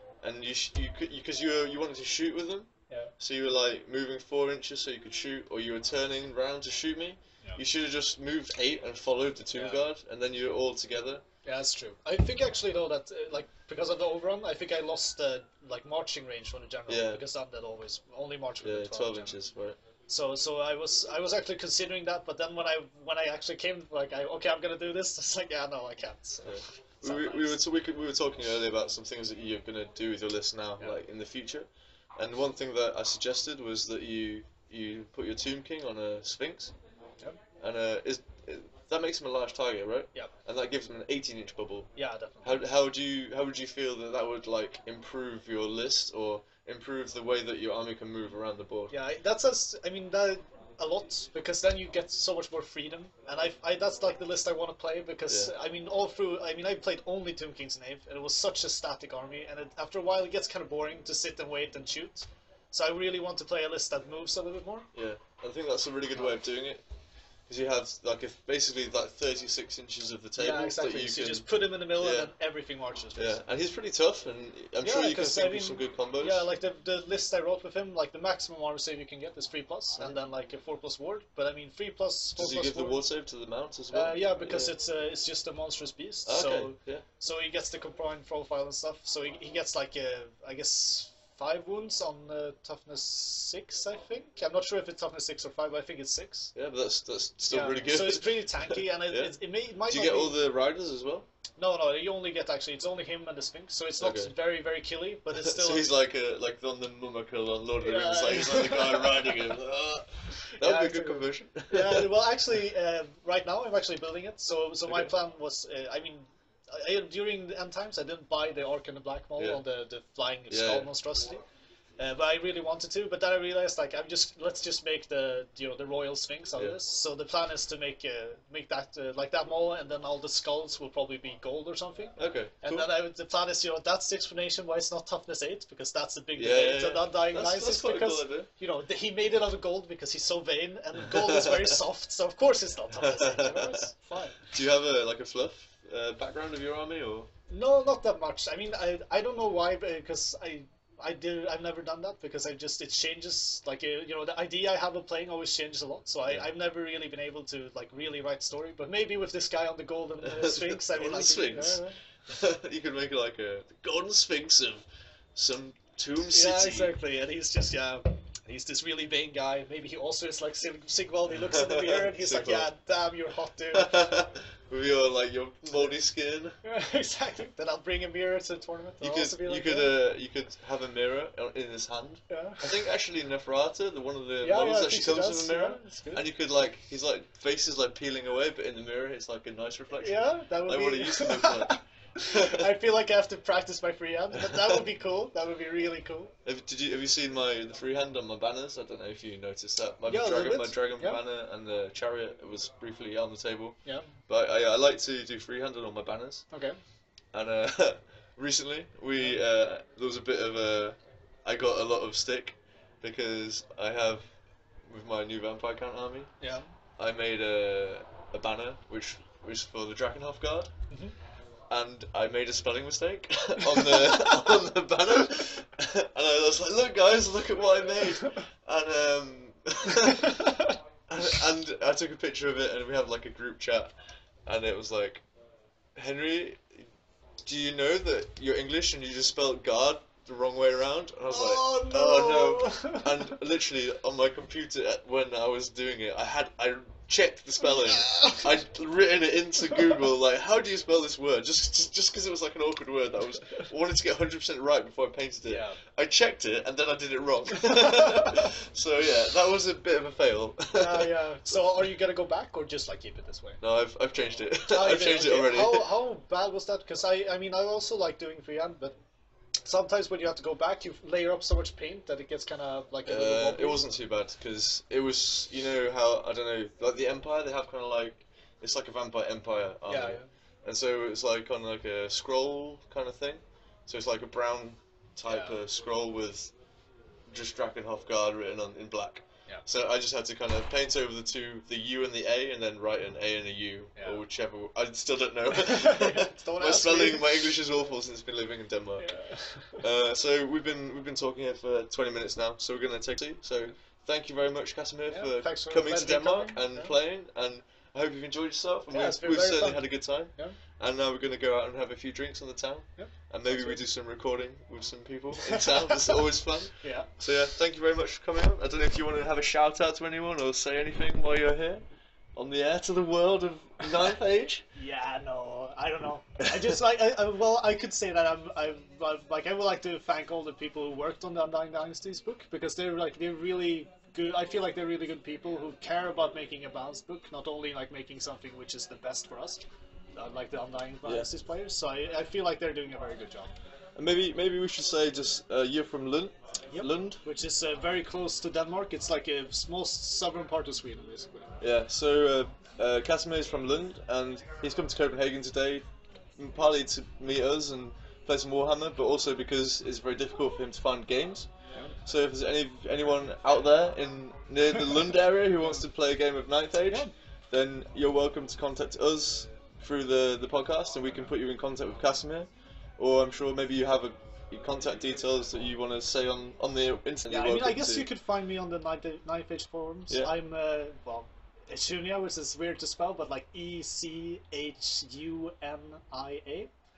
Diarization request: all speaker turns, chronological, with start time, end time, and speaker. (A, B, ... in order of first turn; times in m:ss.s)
0:00.2-0:11.2 A
0:09.5-0:09.8 B
0:11.4-0:19.4 B
0:16.9-0:17.2 A
0:18.6-0:19.8 A
0:20.1-0:27.6 B
0:26.4-0:36.7 A
0:37.6-0:41.9 A
0:42.0-0:42.6 B
0:42.4-0:49.0 A
0:48.9-1:04.9 B
0:55.3-0:55.5 A
1:04.9-1:06.8 A
1:06.1-1:06.4 B
1:07.5-1:12.3 A
1:10.4-1:13.4 B
1:13.1-1:16.5 A
1:14.8-1:23.1 B
1:22.4-1:24.8 A
1:23.9-1:36.5 B
1:26.2-1:27.0 A
1:36.5-1:41.3 A
1:37.5-1:40.4 B
1:41.6-1:45.9 B
1:44.0-1:44.4 A
1:45.3-1:52.2 A
1:47.8-1:49.5 B
1:50.6-2:01.4 B
1:54.9-1:55.1 A
1:59.4-1:59.6 A
2:00.5-2:00.9 A
2:02.0-2:24.4 B
2:12.2-2:12.9 A
2:16.4-2:18.5 A
2:21.1-2:21.8 A
2:22.9-2:23.8 A
2:24.5-2:27.3 A
2:27.5-2:42.0 B
2:36.2-2:36.5 A
2:40.2-2:47.0 A
2:46.3-2:54.0 B
2:51.4-2:52.7 A
2:53.7-2:56.6 A
2:56.6-3:00.0 B
2:59.0-3:11.8 A
3:02.3-3:02.8 B
3:04.4-3:06.2 B
3:10.0-3:16.3 B
3:12.3-3:12.7 A
3:14.4-3:14.8 A
3:16.4-3:23.8 A
3:20.0-3:21.2 B
3:23.8-3:24.1 B
3:24.3-3:26.4 A
3:26.5-3:26.8 B
3:27.3-3:34.2 A
3:34.9-3:36.3 A
3:36.4-3:36.7 B
3:37.0-3:40.7 A
3:41.7-3:50.6 A
3:51.1-3:53.9 A
3:54.5-3:55.2 A
3:56.0-3:56.8 A
3:57.4-4:21.6 A
4:01.3-4:03.1 B
4:07.6-4:08.5 B
4:15.5-4:15.8 B
4:20.7-4:23.6 B
4:23.6-4:25.9 A
4:24.7-4:29.0 B
4:29.6-4:33.9 B
4:33.0-4:46.5 A
4:39.9-4:40.3 B
4:45.2-4:45.6 B
4:47.3-4:59.2 A
4:54.0-4:54.2 B
4:55.6-4:57.5 B
4:59.0-4:59.8 B
4:59.8-5:21.8 A
5:05.1-5:06.9 B
5:08.9-5:10.6 B
5:13.0-5:13.8 B
5:15.4-5:16.2 B
5:16.8-5:17.1 B
5:22.4-5:24.6 A
5:24.8-5:39.6 B
5:40.2-5:43.5 B
5:41.0-5:41.3 A
5:44.0-5:47.2 A
5:46.7-5:51.5 B
5:51.6-5:55.8 A
5:56.4-6:01.5 A
6:02.0-6:18.1 A
6:05.6-6:05.9 B
6:06.8-6:07.1 B
6:17.2-6:26.7 B